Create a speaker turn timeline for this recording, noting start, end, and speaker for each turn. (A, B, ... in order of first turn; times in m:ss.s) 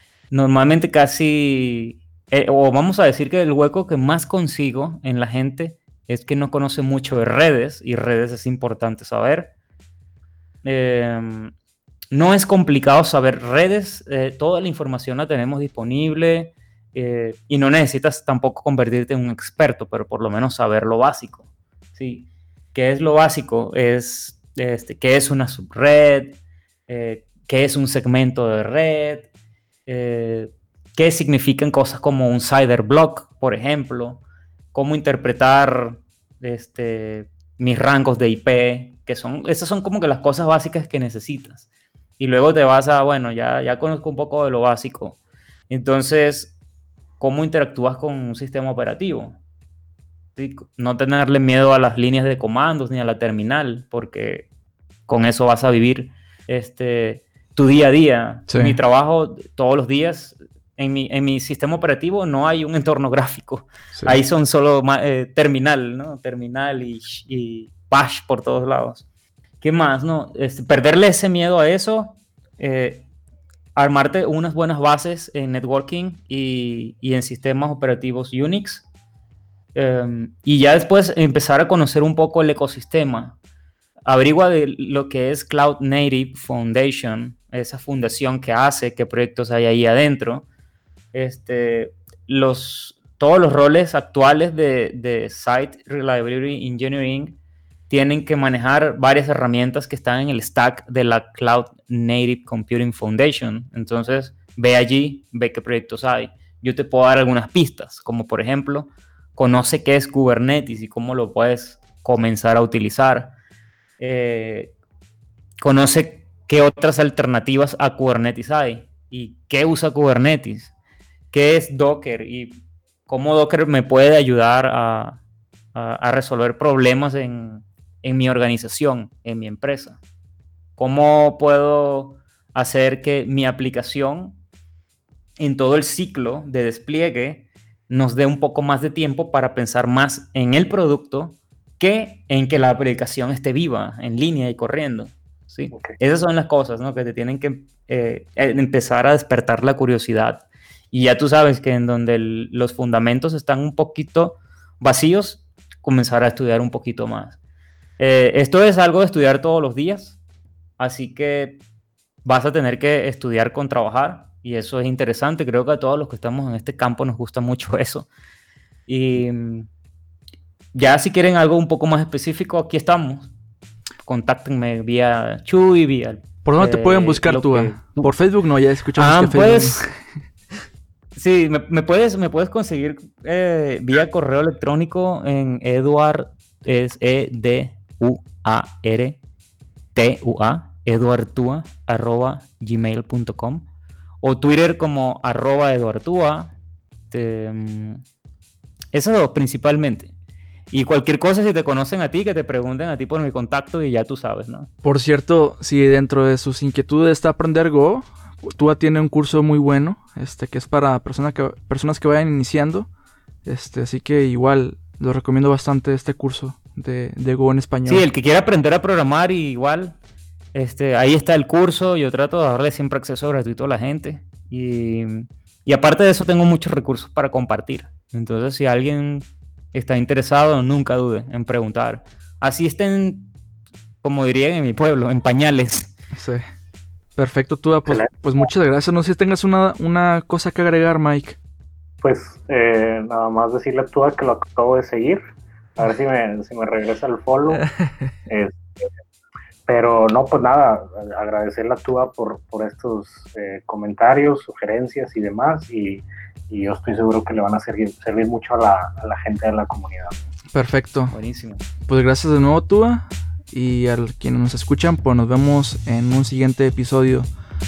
0:00.3-0:09.5 A
0:10.6-0:11.5 A
0:12.1-0:21.4 A
0:22.0-0:29.3 A
0:29.9-0:34.2 A
0:34.7-0:41.6 A
0:42.2-0:45.2 A
0:45.7-0:46.5 A
0:47.2-0:49.4 A
0:50.4-0:54.5 A
0:55.1-1:09.0 A
0:58.5-0:58.8 B
1:09.6-1:13.0 A
1:13.7-1:18.8 A
1:19.7-1:23.4 A
1:24.0-1:30.4 A
1:31.1-1:37.4 A
1:37.9-1:53.4 A
1:54.0-1:54.7 A
1:55.6-2:00.7 A
2:01.3-2:05.2 A
2:05.7-2:10.0 A
2:10.8-2:14.4 A
2:15.4-2:37.4 A
2:38.0-2:40.2 A
2:40.8-2:41.6 A
2:42.2-2:48.1 A
2:48.9-2:49.7 A
2:50.7-2:53.3 A
2:54.0-2:58.1 A
2:56.4-2:59.8 B
2:59.0-2:59.8 A
3:01.2-3:09.2 A
3:09.9-3:13.6 A
3:14.2-3:16.5 A
3:17.1-3:18.0 A
3:18.9-3:20.1 A
3:20.7-3:24.7 A
3:24.8-3:32.9 B
3:33.4-3:38.0 B
3:37.9-3:40.0 A
3:40.5-3:53.3 A
3:54.0-3:55.9 A
3:56.1-3:56.4 B
3:57.2-4:01.4 B
4:02.0-4:05.2 C
4:05.8-4:07.6 C
4:07.8-4:08.1 B
4:08.3-4:08.6 C
4:09.7-4:20.2 C
4:20.5-4:21.1 B
4:21.1-4:21.7 A
4:21.9-4:27.3 B